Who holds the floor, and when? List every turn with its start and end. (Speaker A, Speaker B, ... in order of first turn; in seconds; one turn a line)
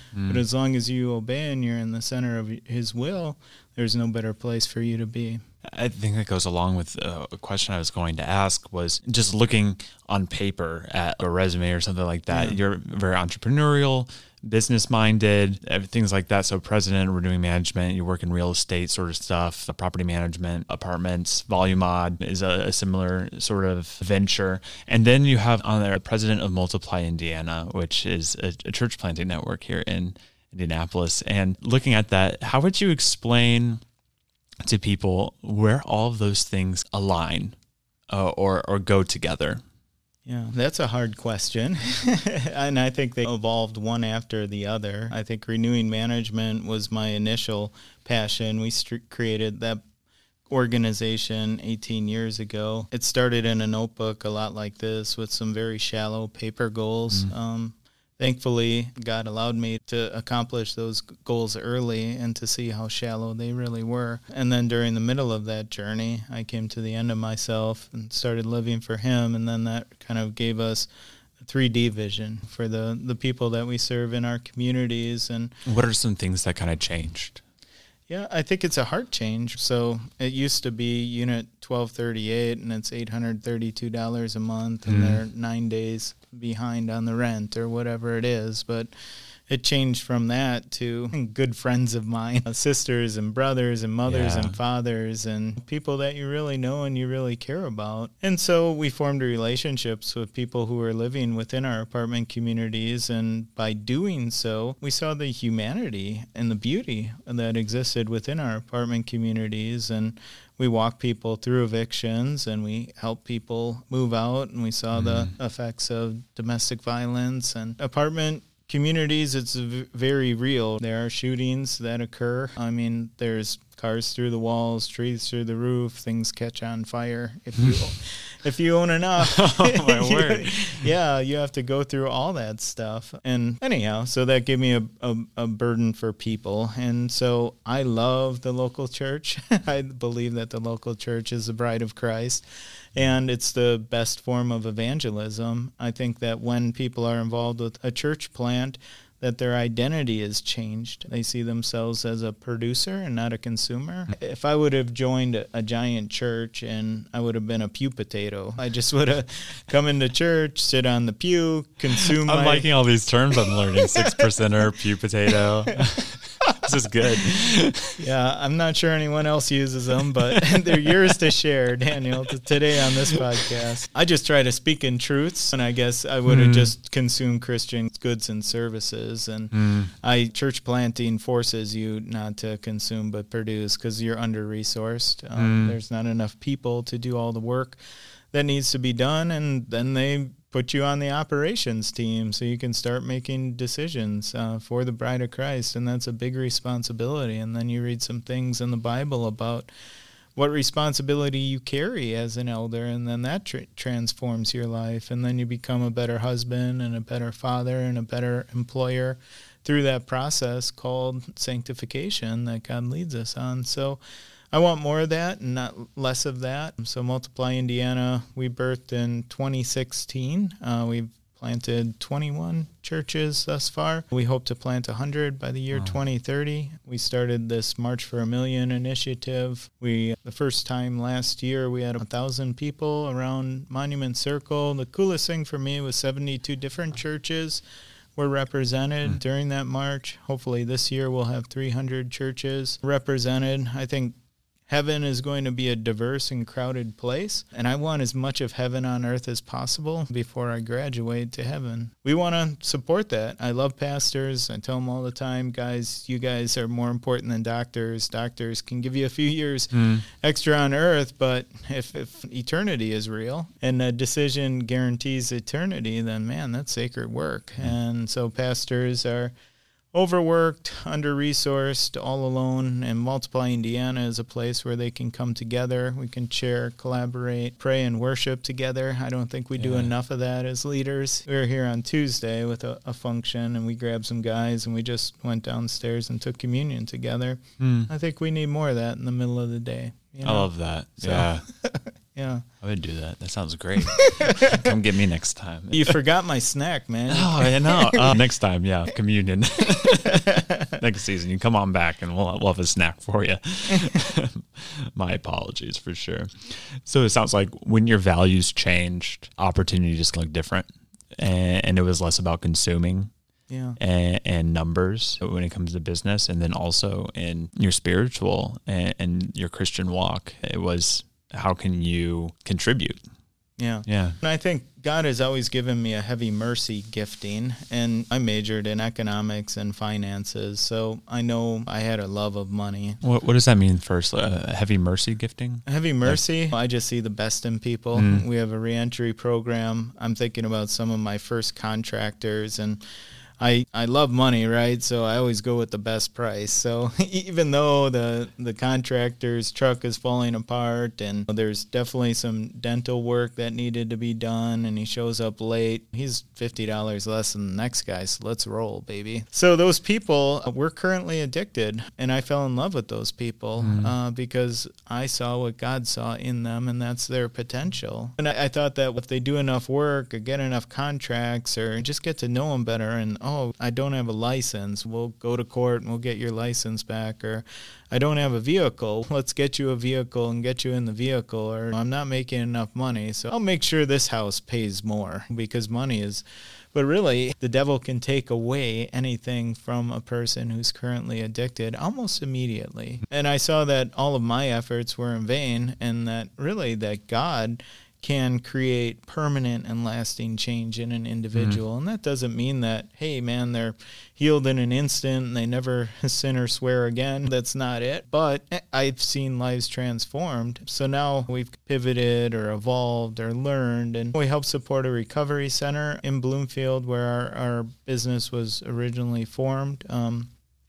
Speaker A: 0.1-0.4
Speaker B: 0.2-5.4
Speaker A: 5.7-33.8
Speaker B: 12.3-12.6
Speaker A: 34.6-37.5
Speaker A: 38.1-39.6
Speaker B: 40.3-49.8
Speaker B: 50.5-70.9
Speaker B: 71.4-75.5
Speaker A: 75.7-77.4
Speaker B: 78.1-88.9
Speaker A: 84.9-85.2
Speaker B: 89.5-142.4
Speaker A: 94.1-94.6
Speaker A: 115.0-115.3
Speaker A: 129.2-130.9
Speaker B: 142.9-162.7
Speaker A: 162.1-168.0
Speaker B: 168.0-187.8
Speaker A: 176.3-176.7
Speaker A: 179.5-179.9
Speaker A: 185.4-185.8
Speaker B: 188.3-199.7
Speaker B: 200.4-214.0
Speaker B: 214.5-237.6
Speaker B: 238.2-244.1
Speaker B: 244.7-269.3
Speaker A: 259.7-260.0
Speaker B: 269.9-292.4
Speaker A: 279.6-279.9
Speaker A: 287.6-287.9
Speaker A: 290.2-291.4
Speaker A: 292.6-295.9
Speaker B: 293.9-294.7
Speaker B: 295.7-298.2
Speaker A: 297.1-313.1
Speaker B: 300.3-300.7
Speaker B: 313.5-313.8
Speaker A: 313.8-323.0
Speaker B: 323.6-333.0
Speaker A: 323.9-324.2
Speaker A: 333.0-336.2
Speaker B: 335.7-342.8
Speaker A: 337.9-338.2
Speaker B: 343.4-420.3
Speaker A: 363.6-363.9